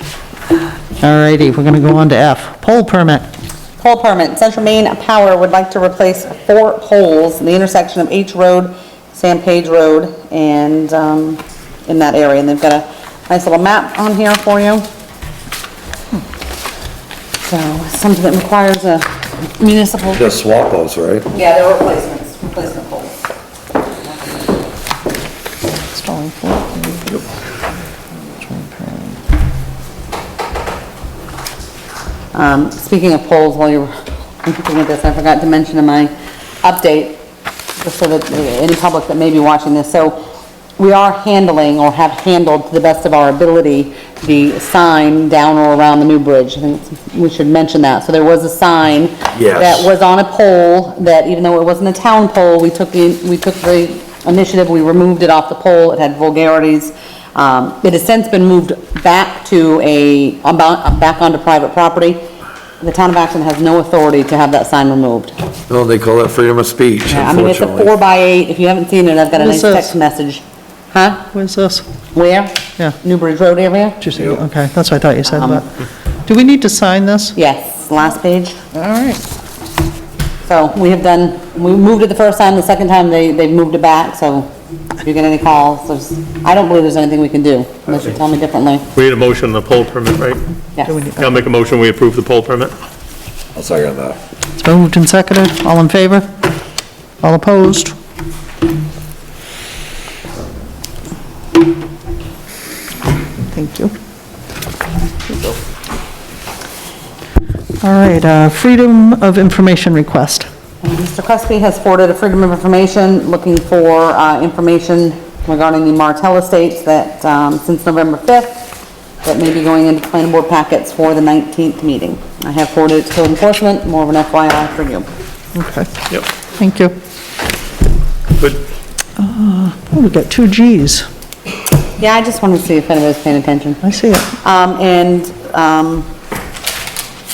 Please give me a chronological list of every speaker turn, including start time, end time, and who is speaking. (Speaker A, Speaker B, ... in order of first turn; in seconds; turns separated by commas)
Speaker A: 1.0-3.3, Speaker B: 3.8-14.9, Speaker B: 17.4-20.3, Speaker C: 20.1-21.3, Speaker B: 21.3-23.2, Speaker B: 24.0-24.6, Speaker A: 25.9-27.2, Speaker A: 28.2-29.2, Speaker B: 32.3-37.2, Speaker B: 37.8-40.2, Speaker B: 40.8-62.2, Speaker C: 49.3-49.9, Speaker B: 62.8-65.3, Speaker C: 65.7-68.0, Speaker B: 67.1-71.3, Speaker A: 69.4-69.9, Speaker A: 71.3-71.8, Speaker B: 72.1-74.0, Speaker A: 74.0-75.7, Speaker C: 74.2-74.4, Speaker B: 75.3-75.6, Speaker A: 76.3-77.4, Speaker B: 77.4-78.6, Speaker A: 78.7-79.2, Speaker B: 80.5-84.5, Speaker B: 85.0-88.9, Speaker D: 88.9-90.4, Speaker A: 90.9-91.4, Speaker D: 91.2-92.7, Speaker C: 93.5-94.2, Speaker A: 94.6-96.3, Speaker A: 97.2-97.9, Speaker A: 103.5-103.9, Speaker A: 105.3-105.5, Speaker A: 107.8-110.5, Speaker B: 110.8-118.7, Speaker B: 119.2-125.1, Speaker A: 125.5-125.9, Speaker A: 126.5-127.0, Speaker A: 129.2-131.1, Speaker B: 132.0-133.8, Speaker A: 133.8-134.3, Speaker B: 134.4-136.1